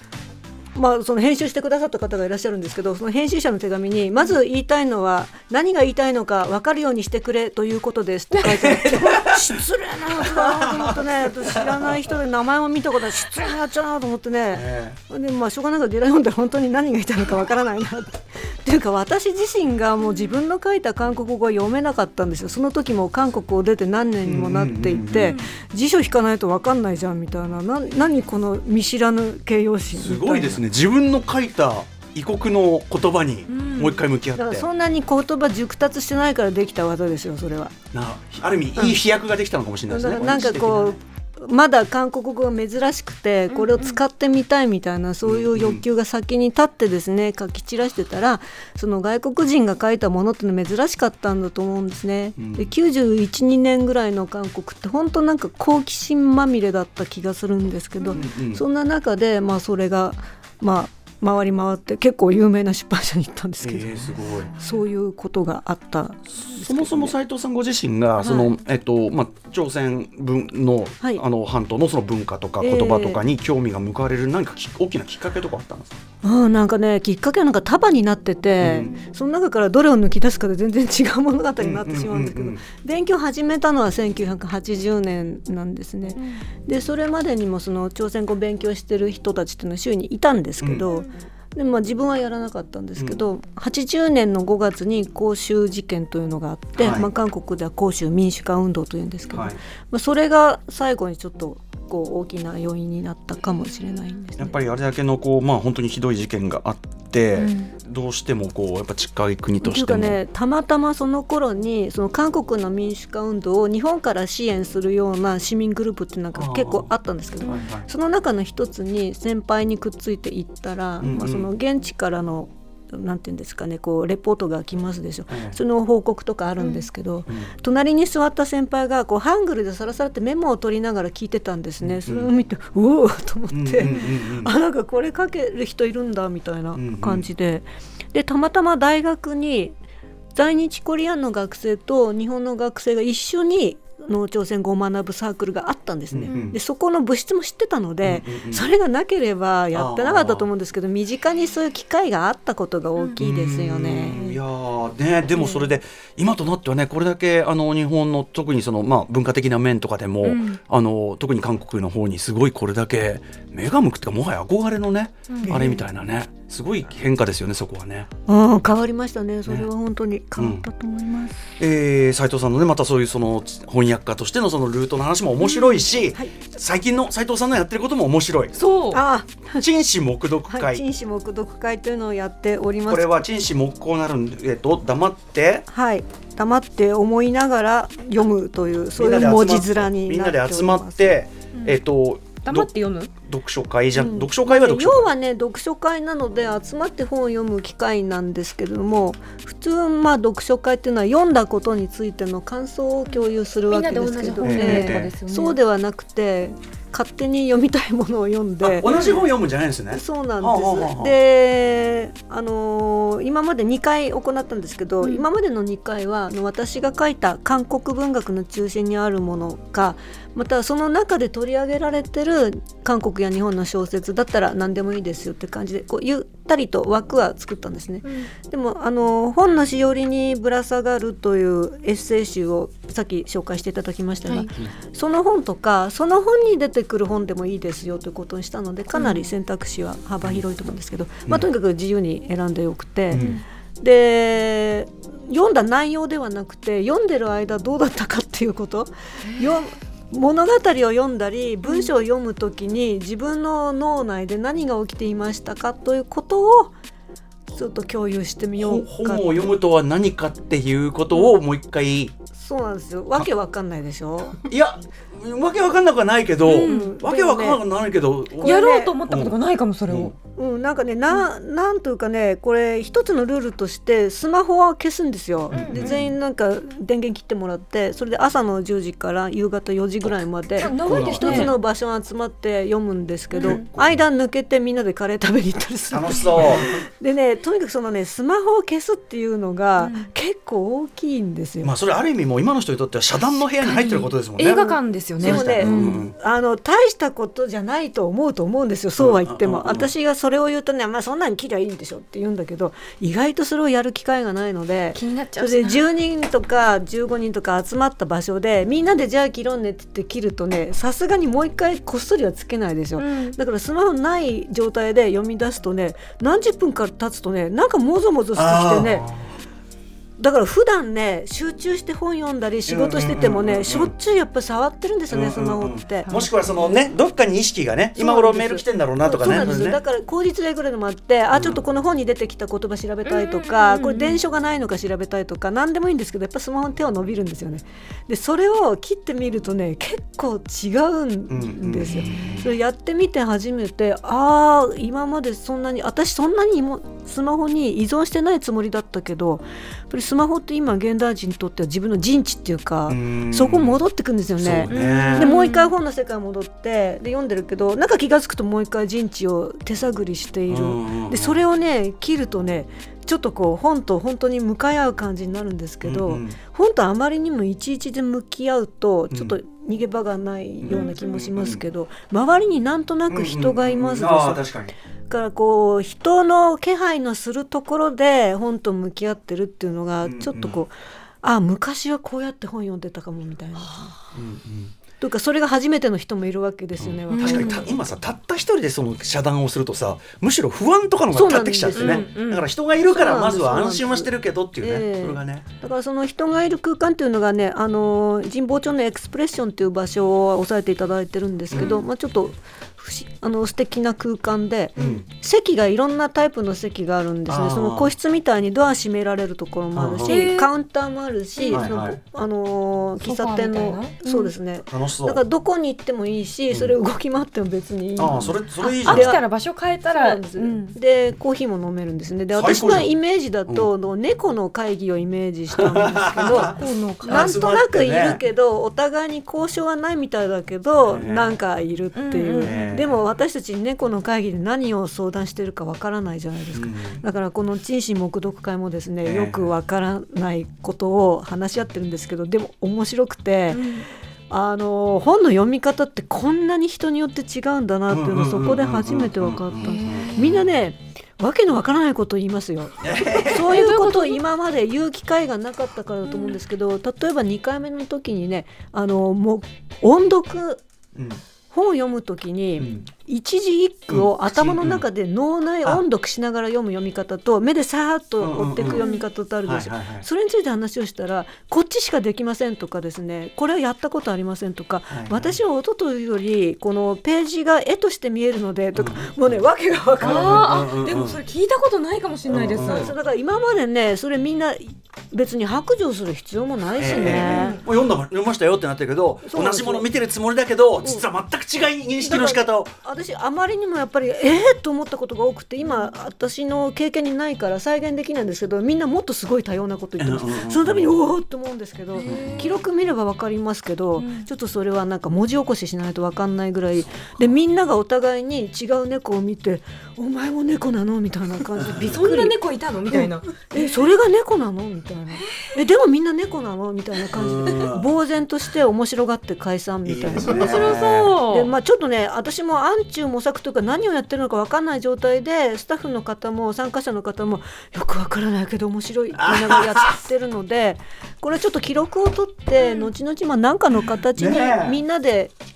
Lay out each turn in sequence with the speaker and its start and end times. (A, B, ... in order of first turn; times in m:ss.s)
0:00.7-0:30.6 A
0:08.4-0:09.6 B
0:10.1-0:12.0 B
0:14.5-0:15.0 B
0:24.2-0:25.4 B
0:25.2-0:25.4 C
0:29.9-0:34.7 B
0:33.5-0:34.0 C
0:34.4-0:37.7 A
0:37.9-0:41.0 B
0:39.9-1:07.1 A
0:43.5-0:44.0 C
0:45.2-0:45.8 B
0:52.4-0:52.7 B
0:58.1-0:58.6 B
1:03.6-1:04.5 B
1:06.3-1:15.9 B
1:08.2-1:08.5 A
1:12.6-1:13.2 A
1:16.2-1:44.6 A
1:18.6-1:18.9 B
1:21.6-1:22.6 B
1:30.6-1:30.8 B
1:36.8-1:37.1 B
1:39.3-1:39.6 B
1:44.4-1:50.2 B
1:47.4-1:47.7 C
1:49.6-2:19.7 A
1:56.3-1:56.9 B
1:57.4-1:57.8 B
2:01.0-2:01.5 B
2:05.3-2:05.6 B
2:11.8-2:12.3 B
2:13.5-2:14.5 B
2:13.8-2:14.2 C
2:16.7-2:17.3 B
2:20.3-2:34.4 A
2:26.1-2:26.6 B
2:28.0-2:28.6 B
2:29.7-2:30.5 B
2:33.2-2:48.1 B
2:40.2-2:40.6 C
2:45.3-2:45.6 C
2:45.4-2:45.8 A
2:48.3-2:51.4 A
2:50.4-2:50.6 B
2:51.6-2:58.6 B
2:55.4-2:55.9 C
2:58.5-2:59.0 C
2:58.9-2:59.6 A
2:59.6-3:00.8 B
3:00.5-3:03.2 A
3:02.9-3:05.6 B
3:05.7-3:11.2 A
3:09.0-3:15.1 B
3:12.4-3:13.1 C
3:14.0-3:28.9 A
3:23.7-3:25.6 C
3:24.4-3:25.1 B
3:28.6-3:31.1 B
3:29.9-4:03.2 A
3:54.3-3:54.5 C
3:58.9-3:59.2 C
4:03.1-4:03.4 B
4:03.1-4:03.4 C
4:03.8-4:16.7 A
4:09.3-4:09.5 C
4:17.5-4:19.5 A
4:18.6-4:22.1 B
4:22.3-4:24.4 A
4:24.4-4:29.4 B
4:26.4-4:27.0 C
4:26.6-4:27.6 A
4:28.4-4:30.1 C
4:28.4-4:28.9 A
4:29.9-4:30.1 B
4:30.3-4:51.7 A
4:35.5-4:36.1 B
4:35.5-4:36.0 C
4:40.0-4:41.6 B
4:40.6-4:41.5 C
4:43.3-4:43.6 C
4:43.4-4:44.0 B
4:45.9-4:46.8 B
4:49.8-4:50.1 C
4:51.6-4:56.1 B
4:53.6-4:55.9 C
4:55.2-5:19.1 A
4:59.0-4:59.9 B
5:04.9-5:05.9 C
5:13.0-5:13.4 C
5:18.4-5:19.3 B
5:20.2-5:26.1 A
5:22.7-5:23.9 B
5:25.1-5:29.8 B
5:26.0-5:26.7 C
5:28.0-6:14.4 A
5:31.3-5:31.6 B
5:33.0-5:34.2 C
5:41.3-5:42.4 B
5:41.9-5:42.4 C
5:52.9-5:53.8 B
5:54.4-5:55.3 B
5:54.7-5:55.7 C
6:00.5-6:01.4 B
6:05.8-6:06.4 B
6:10.6-6:11.6 B
6:10.7-6:11.0 C
6:13.1-6:14.7 B
6:15.1-6:24.0 A
6:20.0-6:20.6 B
6:23.6-6:23.9 C
6:24.1-6:24.7 B
6:25.0-6:27.7 A
6:26.8-6:35.4 B
6:27.1-6:27.7 C
6:31.1-6:32.1 A
6:31.7-6:32.5 C
6:32.8-6:59.2 A
6:41.6-6:41.8 C
6:44.8-6:45.0 C
6:44.8-6:45.0 B
6:47.3-6:47.9 B
6:49.7-6:50.2 B
6:50.0-6:50.5 C
6:51.4-6:51.7 C
6:51.5-6:52.0 B
6:53.0-6:54.3 C
6:54.7-6:55.2 B
6:58.0-6:59.2 B
6:58.1-7:00.8 C
6:59.9-7:23.7 A
7:02.3-7:02.9 B
7:05.5-7:08.2 B
7:06.2-7:07.3 C
7:10.8-7:11.4 B
7:11.9-7:12.8 C
7:12.4-7:13.0 B
7:16.5-7:17.0 B
7:19.0-7:19.5 B
7:23.5-7:23.9 C
7:24.3-7:40.6 A
7:27.9-7:30.4 B
7:29.6-7:30.4 C
7:32.8-7:33.6 B
7:33.4-7:34.2 C
7:36.1-7:36.4 C
7:40.9-7:41.2 B
7:41.5-8:00.5 A
7:42.6-7:42.8 B
7:43.9-7:44.8 B
7:48.2-7:48.8 B
7:48.7-7:49.0 C
7:49.4-7:50.0 B
7:54.9-7:55.3 B
7:58.8-7:59.3 B
8:00.0-8:01.2 B
8:00.0-8:02.9 C
8:02.3-8:02.9 B
8:02.6-8:07.6 A
8:06.8-8:12.7 B
8:07.0-8:07.6 C
8:09.2-8:09.8 A
8:12.0-8:32.4 A
8:20.0-8:20.9 B
8:21.9-8:22.5 C
8:22.0-8:22.5 B
8:24.0-8:24.3 C
8:26.8-8:27.2 B
8:31.6-8:32.0 B
8:31.7-8:33.8 C
8:32.9-8:40.6 A
8:37.1-8:37.9 B
8:39.8-8:41.2 B
8:40.2-8:41.5 C
8:41.3-8:55.3 A
8:49.1-8:50.0 B
8:52.6-8:52.9 C
8:54.1-8:54.8 B